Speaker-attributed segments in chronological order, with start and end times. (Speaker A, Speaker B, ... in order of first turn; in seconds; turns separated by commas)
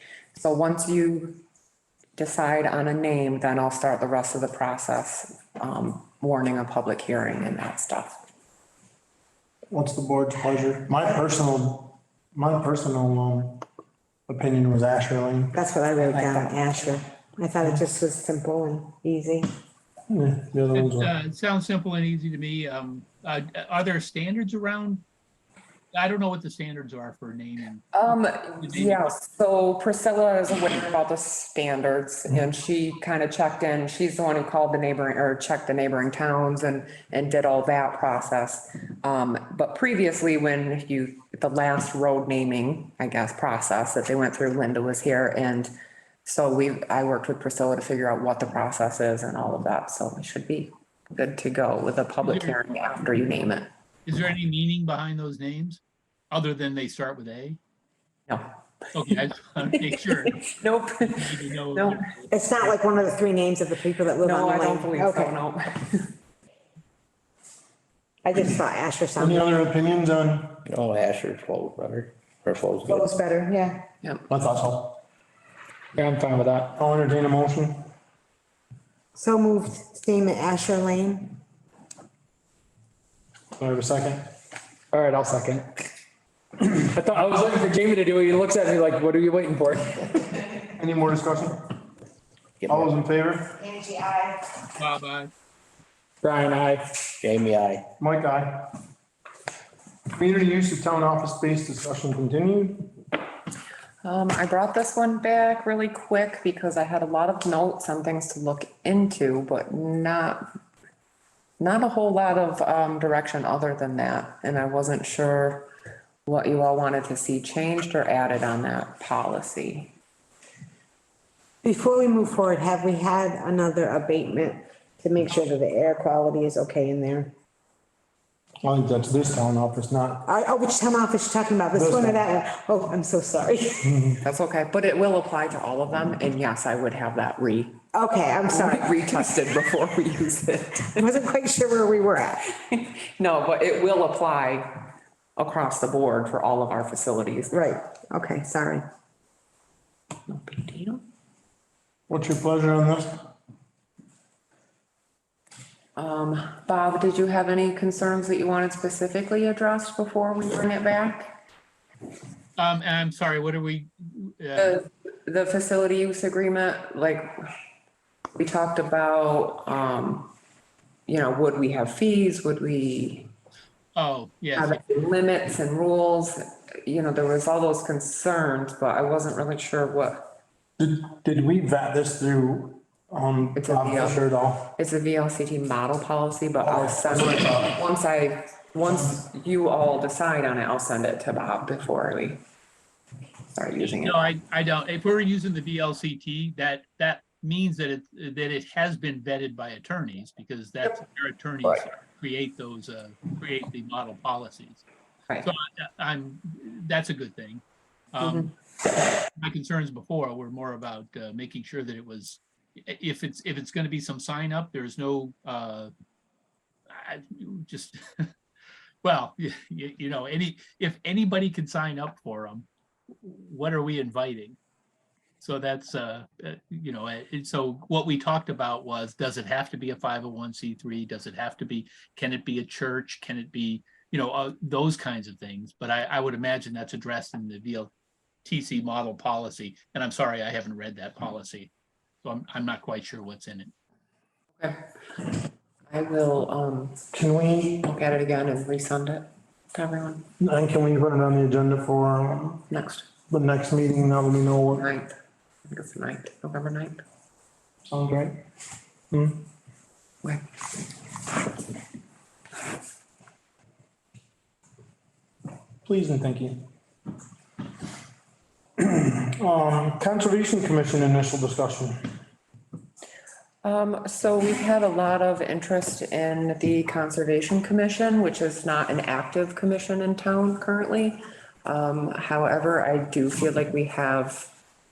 Speaker A: 0.3-1.4, Speaker A: 2.2-8.2, Speaker B: 9.7-13.6, Speaker B: 14.3-15.6, Speaker C: 15.5-19.5, Speaker B: 20.1-21.1, Speaker D: 20.7-25.0, Speaker D: 25.9-29.1, Speaker A: 27.9-45.7, Speaker A: 46.2-53.7, Speaker D: 52.2-52.6, Speaker D: 54.0-57.6, Speaker A: 58.3-58.5, Speaker D: 58.9-60.4, Speaker A: 59.6-62.0, Speaker D: 61.1-62.8, Speaker C: 62.3-65.3, Speaker A: 64.2-66.1, Speaker C: 68.2-69.5, Speaker B: 69.2-70.6, Speaker E: 70.7-73.0, Speaker C: 72.8-73.8, Speaker B: 74.3-75.0, Speaker F: 76.0-76.7, Speaker B: 76.8-77.9, Speaker C: 79.1-81.4, Speaker B: 83.6-84.3, Speaker F: 84.9-85.7, Speaker F: 86.7-90.3, Speaker B: 90.8-91.7, Speaker B: 92.7-93.6, Speaker C: 93.6-94.4, Speaker D: 94.8-95.3, Speaker F: 96.2-97.1, Speaker E: 97.2-97.8, Speaker B: 98.0-98.8, Speaker B: 100.1-102.9, Speaker A: 104.0-110.5, Speaker A: 111.6-115.7, Speaker A: 116.2-119.9, Speaker C: 121.6-127.3, Speaker B: 128.6-130.3, Speaker C: 130.2-134.0, Speaker B: 131.7-132.3, Speaker B: 133.8-134.2, Speaker A: 134.2-137.8, Speaker C: 137.9-139.2, Speaker A: 138.5-141.2, Speaker C: 140.9-142.5, Speaker A: 142.6-144.8, Speaker A: 145.4-147.8, Speaker C: 147.5-148.8, Speaker A: 150.3-151.0, Speaker B: 152.1-153.2, Speaker A: 155.9-161.4, Speaker D: 162.6-164.8, Speaker A: 164.6-167.5, Speaker A: 168.4-170.3, Speaker A: 171.1-173.3, Speaker D: 173.9-174.8, Speaker A: 174.6-180.3, Speaker B: 180.8-184.7, Speaker A: 183.6-184.2, Speaker A: 184.7-192.4, Speaker B: 186.6-187.7, Speaker A: 193.5-194.2, Speaker D: 193.9-204.8, Speaker D: 205.4-207.6, Speaker D: 208.1-215.9, Speaker D: 216.9-218.3, Speaker D: 219.0-222.7, Speaker D: 223.2-224.6, Speaker D: 225.4-237.9, Speaker D: 238.4-241.7, Speaker D: 242.2-243.7, Speaker A: 245.9-247.0, Speaker B: 247.1-247.9, Speaker A: 247.8-250.2, Speaker B: 250.4-252.7, Speaker A: 252.7-253.1, Speaker B: 253.3-254.9, Speaker A: 254.7-255.1, Speaker A: 255.7-257.0, Speaker B: 257.9-258.4, Speaker B: 259.1-259.4, Speaker B: 265.8-266.6, Speaker B: 268.8-272.1, Speaker A: 273.6-284.5